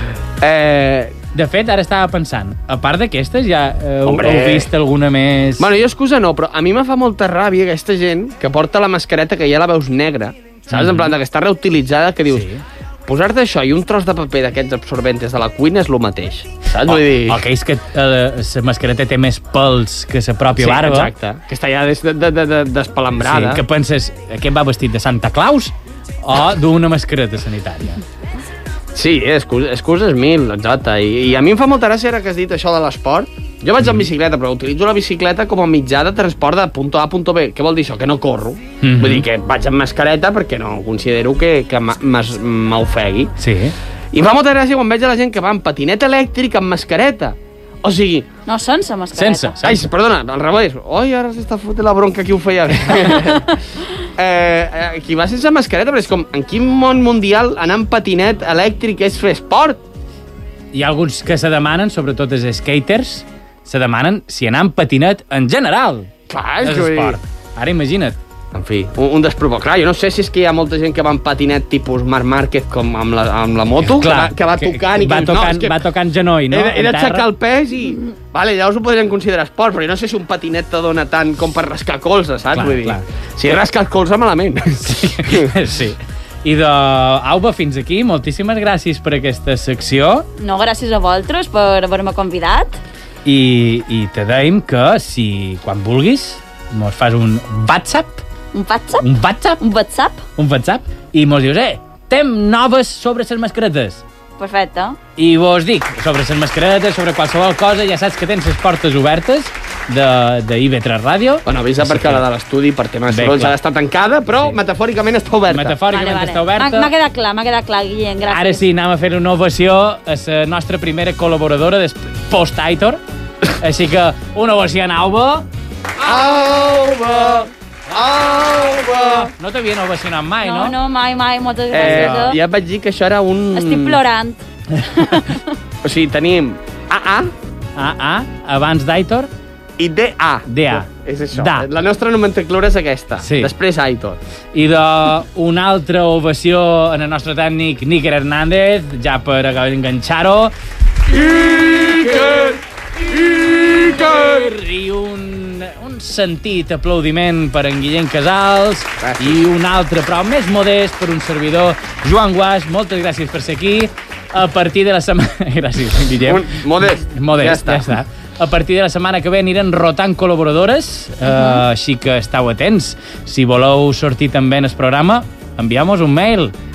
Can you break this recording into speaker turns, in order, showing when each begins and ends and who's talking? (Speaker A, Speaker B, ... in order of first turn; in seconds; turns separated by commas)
Speaker A: 0.4-1.1, Speaker B: 1.3-5.7, Speaker A: 4.1-4.7, Speaker A: 5.6-12.5, Speaker B: 10.7-11.1, Speaker B: 12.3-12.6, Speaker A: 13.1-17.4, Speaker B: 16.8-21.1, Speaker A: 20.6-23.6, Speaker B: 23.2-28.0, Speaker A: 28.9-43.3, Speaker B: 33.8-34.1, Speaker B: 38.8-39.3, Speaker B: 43.4-43.8, Speaker A: 44.1-48.3, Speaker C: 48.5-49.6, Speaker B: 49.1-49.8, Speaker A: 49.6-53.5, Speaker A: 54.2-59.8, Speaker B: 60.7-66.1, Speaker A: 66.3-67.2, Speaker B: 66.6-68.2, Speaker A: 68.5-75.8, Speaker B: 73.8-77.3, Speaker A: 76.5-85.5, Speaker B: 82.5-83.0, Speaker B: 84.8-90.3, Speaker C: 90.4-92.8, Speaker B: 93.2-98.2, Speaker C: 98.5-99.1, Speaker B: 99.0-99.6, Speaker C: 99.6-100.3, Speaker B: 100.4-104.0, Speaker C: 104.4-105.0, Speaker B: 105.2-112.2, Speaker A: 111.5-115.8, Speaker B: 113.1-113.5, Speaker B: 115.5-116.9, Speaker C: 115.9-118.6, Speaker B: 118.3-123.0, Speaker B: 123.6-125.5, Speaker A: 126.0-129.3, Speaker B: 129.0-130.8, Speaker C: 130.4-132.4, Speaker A: 131.7-134.0, Speaker B: 131.8-132.3, Speaker C: 133.6-134.4, Speaker C: 134.9-135.5, Speaker A: 135.8-137.3, Speaker B: 137.8-139.3, Speaker A: 139.8-144.2, Speaker B: 140.5-141.7, Speaker B: 143.2-143.5, Speaker B: 144.5-150.5, Speaker A: 151.1-154.5, Speaker B: 151.6-152.3, Speaker B: 153.1-176.5, Speaker A: 159.0-159.4, Speaker A: 166.2-167.9, Speaker C: 171.2-171.6